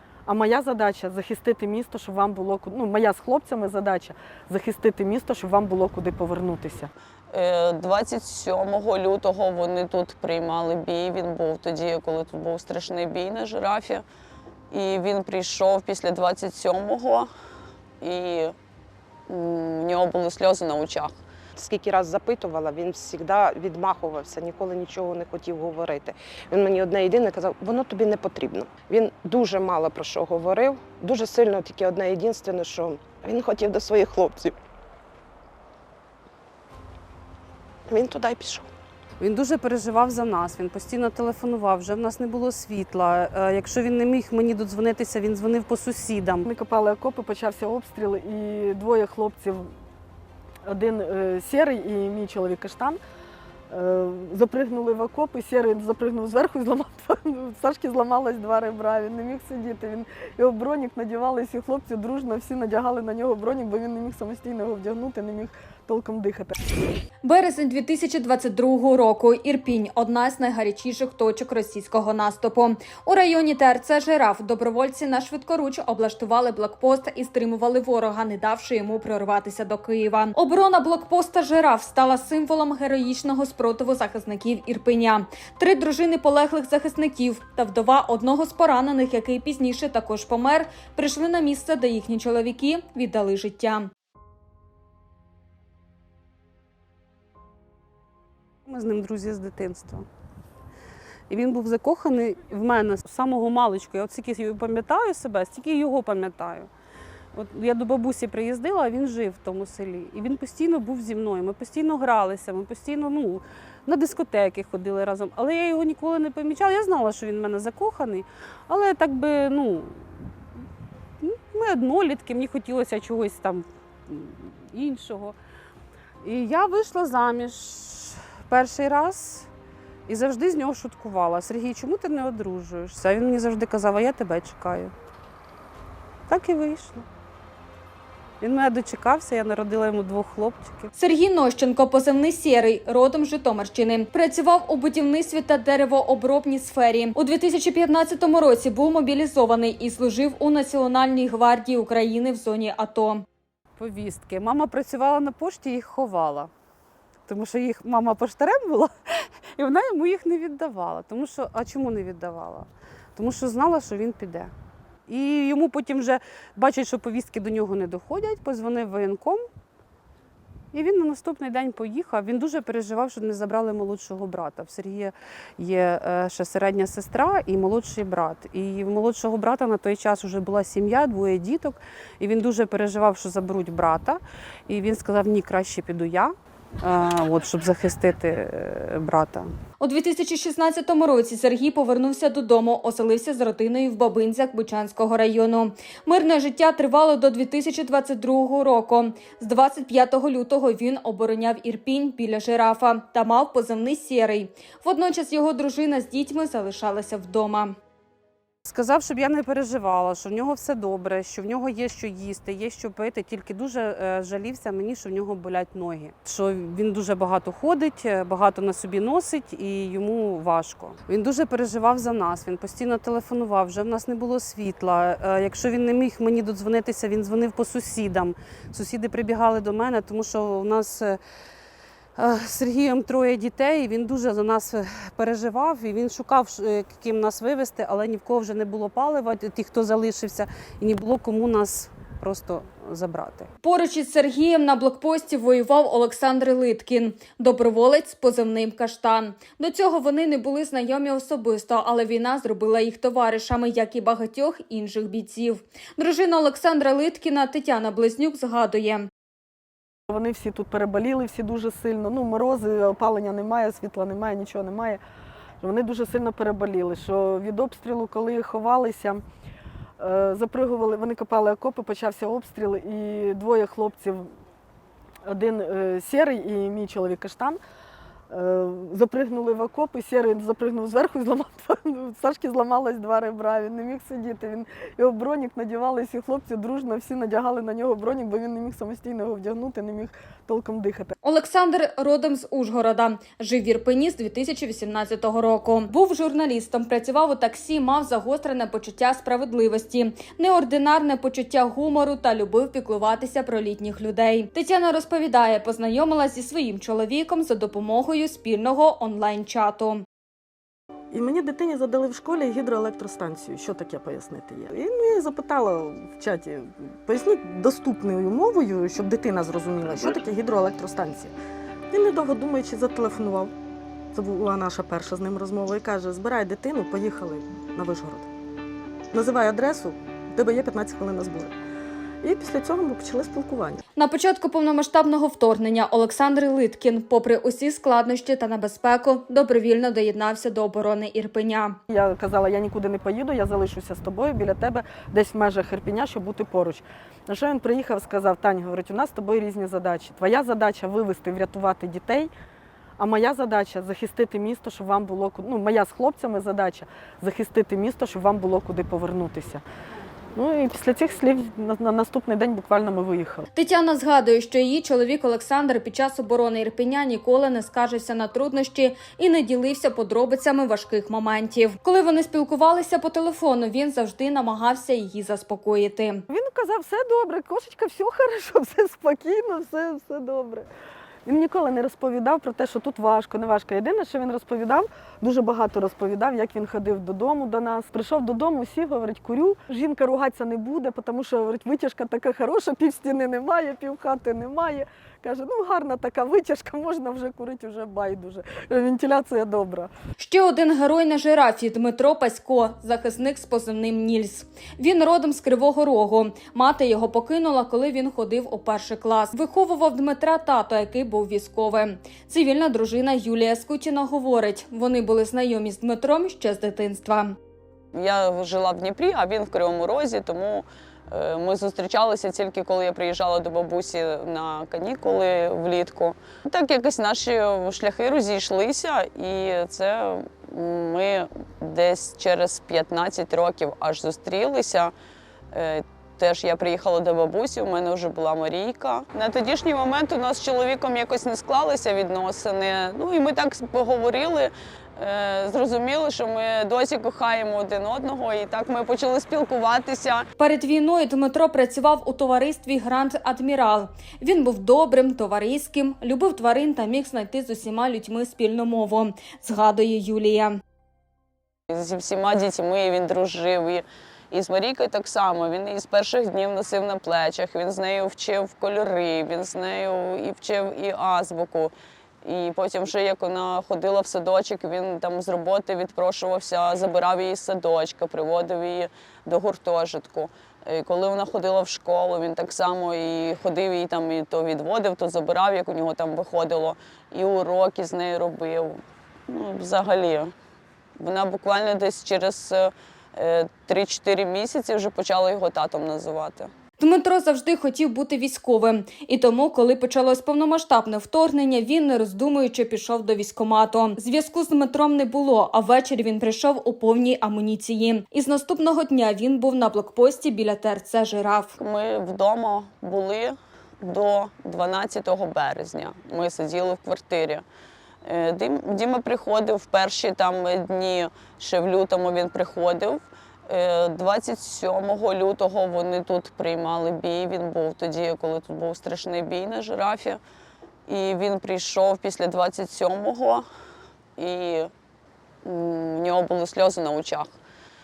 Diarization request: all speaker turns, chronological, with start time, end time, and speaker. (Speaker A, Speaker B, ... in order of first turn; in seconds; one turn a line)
Speaker A: 0.3-6.9
Speaker B: 7.3-14.0
Speaker B: 14.7-17.3
Speaker B: 18.0-18.5
Speaker B: 19.3-21.1
Speaker C: 21.6-34.6
Speaker C: 37.9-38.7
Speaker D: 39.2-46.5
Speaker A: 46.5-49.7
Speaker A: 50.7-53.0
Speaker A: 53.7-66.6
Speaker E: 67.2-93.9
Speaker D: 98.7-100.1
Speaker D: 101.3-106.7
Speaker D: 107.3-120.1
Speaker D: 121.2-125.4
Speaker D: 126.2-129.5
Speaker D: 130.1-134.9
Speaker D: 136.3-137.1
Speaker D: 138.4-140.9
Speaker E: 141.0-153.2
Speaker D: 153.8-156.5
Speaker D: 157.3-164.5
Speaker D: 165.1-169.4
Speaker D: 170.7-189.5
Speaker E: 189.8-207.8
Speaker D: 208.7-231.2
Speaker D: 232.2-243.5
Speaker E: 243.6-259.1
Speaker A: 260.1-265.0
Speaker A: 265.6-269.2
Speaker A: 270.0-274.3
Speaker A: 275.3-277.6
Speaker A: 278.3-291.1
Speaker E: 291.2-310.1
Speaker A: 311.1-321.3
Speaker A: 321.9-323.5
Speaker A: 324.1-328.3
Speaker A: 329.1-331.5
Speaker A: 332.2-333.8
Speaker E: 334.0-341.8
Speaker A: 341.9-352.3
Speaker A: 353.0-359.6
Speaker A: 360.4-363.5
Speaker E: 363.6-376.2
Speaker A: 376.3-380.7
Speaker A: 381.3-399.9
Speaker E: 400.2-417.4
Speaker B: 417.9-434.9
Speaker B: 435.5-450.3
Speaker E: 450.4-460.6
Speaker B: 461.7-471.7
Speaker B: 472.2-490.3
Speaker B: 491.0-496.5
Speaker E: 496.8-511.6
Speaker B: 511.6-517.4
Speaker B: 518.0-530.2
Speaker B: 530.9-533.5
Speaker B: 534.2-534.7
Speaker B: 535.5-537.3